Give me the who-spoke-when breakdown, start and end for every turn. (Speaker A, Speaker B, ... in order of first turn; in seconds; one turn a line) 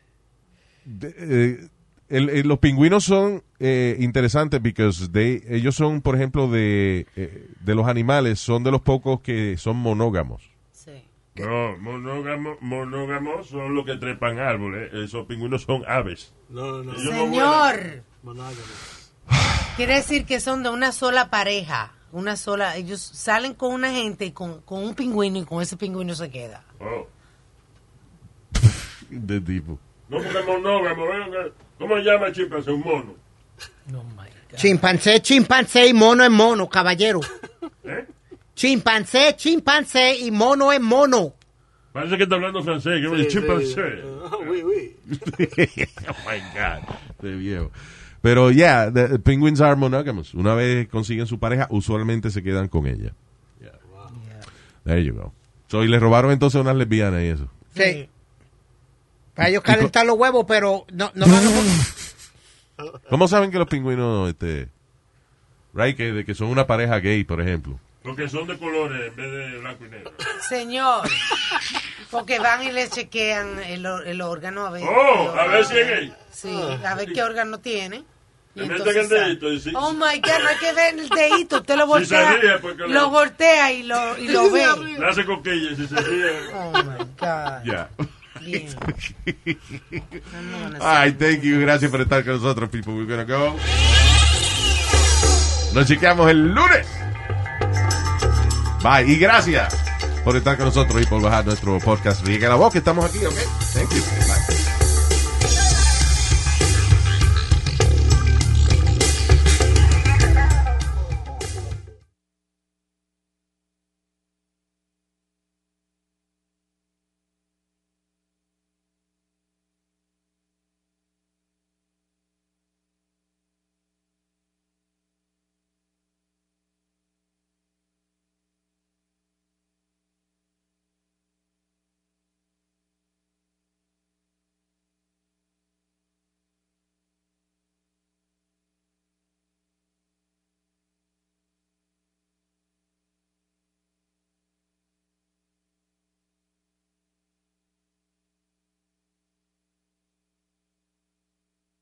Speaker A: 0.8-10.5
Speaker B: 10.8-11.1
Speaker C: 11.4-16.3
Speaker D: 16.5-17.1
Speaker C: 16.9-17.7
Speaker B: 17.0-18.0
Speaker D: 18.2-18.9
Speaker B: 19.7-26.6
Speaker C: 26.8-27.1
Speaker A: 28.5-29.8
Speaker C: 30.1-33.2
Speaker B: 33.9-34.9
Speaker E: 34.6-37.3
Speaker E: 38.5-41.3
Speaker C: 41.9-44.6
Speaker D: 43.1-45.0
Speaker A: 45.1-53.8
Speaker B: 54.1-54.5
Speaker A: 54.8-57.5
Speaker B: 57.7-58.1
Speaker E: 57.7-58.0
Speaker E: 59.4-61.9
Speaker A: 59.6-59.9
Speaker A: 63.1-64.7
Speaker A: 65.7-67.8
Speaker C: 68.0-70.3
Speaker B: 70.4-71.3
Speaker B: 72.1-84.9
Speaker C: 74.8-76.1
Speaker D: 76.5-76.8
Speaker C: 78.5-79.9
Speaker C: 81.9-83.2
Speaker D: 84.2-85.1
Speaker C: 84.9-86.5
Speaker B: 86.5-87.7
Speaker A: 87.6-90.2
Speaker B: 88.4-88.9
Speaker B: 90.3-91.9
Speaker A: 90.7-93.6
Speaker A: 95.7-96.9
Speaker A: 98.8-104.5